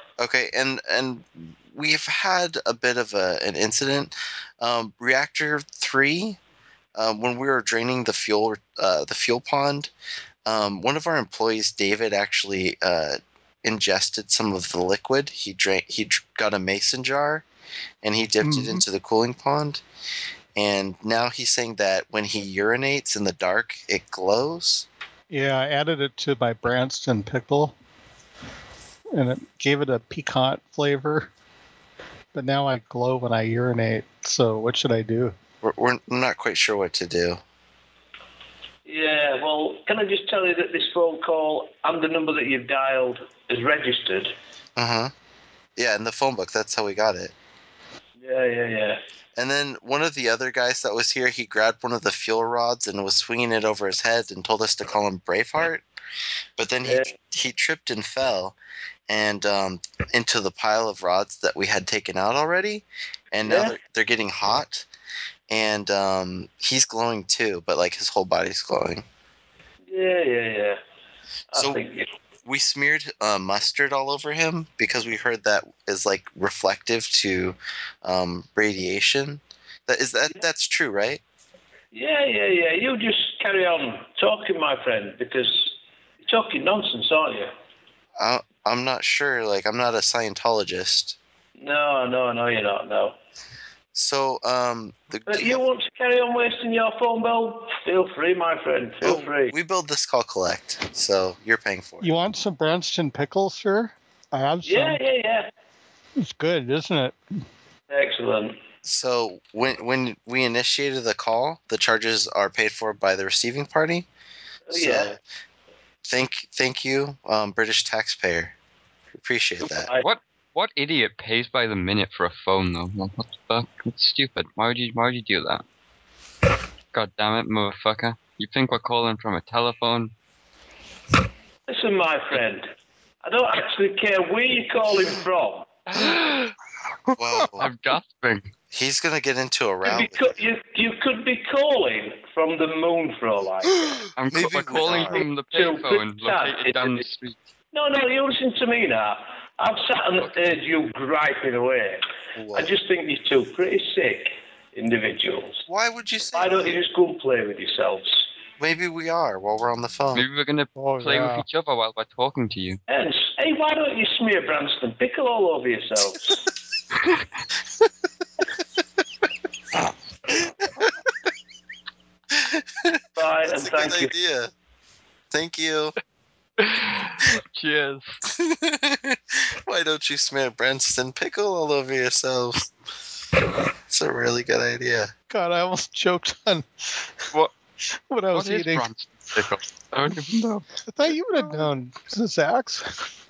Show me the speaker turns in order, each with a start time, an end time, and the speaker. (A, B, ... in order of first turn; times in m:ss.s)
0:00.2-0:06.4 A
0:07.0-0:09.9 A
0:10.5-0:17.4 A
0:18.0-0:19.8 A
0:18.4-0:18.8 B
0:20.6-0:24.9 A
0:25.3-0:27.8 B
0:29.1-0:31.3 B
0:32.3-0:35.4 B
0:35.6-0:37.4 A
0:38.9-0:44.3 C
0:44.8-0:45.1 A
0:45.8-0:47.3 A
0:48.2-0:49.0 C
0:49.4-0:55.8 A
0:56.6-0:58.6 A
0:59.1-1:04.9 A
1:03.4-1:03.8 C
1:05.5-1:09.0 A
1:09.9-1:10.8 C
1:11.5-1:12.1 C
1:11.6-1:11.8 A
1:12.5-1:21.2 A
1:21.9-1:27.5 C
1:28.2-1:31.2 A
1:31.6-1:33.2 C
1:34.0-1:35.6 A
1:35.3-1:39.5 C
1:39.0-1:42.1 A
1:42.0-1:45.0 B
1:44.6-1:45.5 C
1:46.2-1:47.2 B
1:47.9-1:48.5 C
1:48.8-1:54.1 A
1:54.7-1:55.1 C
1:54.7-1:55.2 A
1:56.0-1:58.5 A
1:59.2-1:59.9 A
1:59.6-2:00.1 C
2:00.0-2:05.6 D
2:06.9-2:10.1 D
2:11.7-2:12.7 C
2:13.2-2:15.7 C
2:15.9-2:16.5 D
2:17.2-2:17.7 A
2:17.6-2:18.5 D
2:18.7-2:20.2 A
2:19.8-2:24.1 C
2:24.2-2:27.4 D
2:24.3-2:25.3 A
2:24.9-2:27.0 C
2:27.7-2:32.0 C
2:30.2-2:30.5 D
2:32.4-2:32.7 A
2:32.6-2:35.6 C
2:35.7-2:36.8 A
2:36.3-2:38.2 C
2:38.6-2:40.2 A
2:40.1-2:42.8 D
2:40.8-2:41.5 B
2:42.9-2:46.4 C
2:52.4-2:53.0 A
2:53.2-2:54.1 C
2:53.5-2:54.5 A
2:55.3-2:56.0 A
2:56.6-2:58.2 D
2:58.3-3:02.7 A
3:03.9-3:05.1 A
3:05.3-3:07.1 B
3:08.1-3:08.9 B
3:08.3-3:10.6 D
3:10.8-3:12.9 B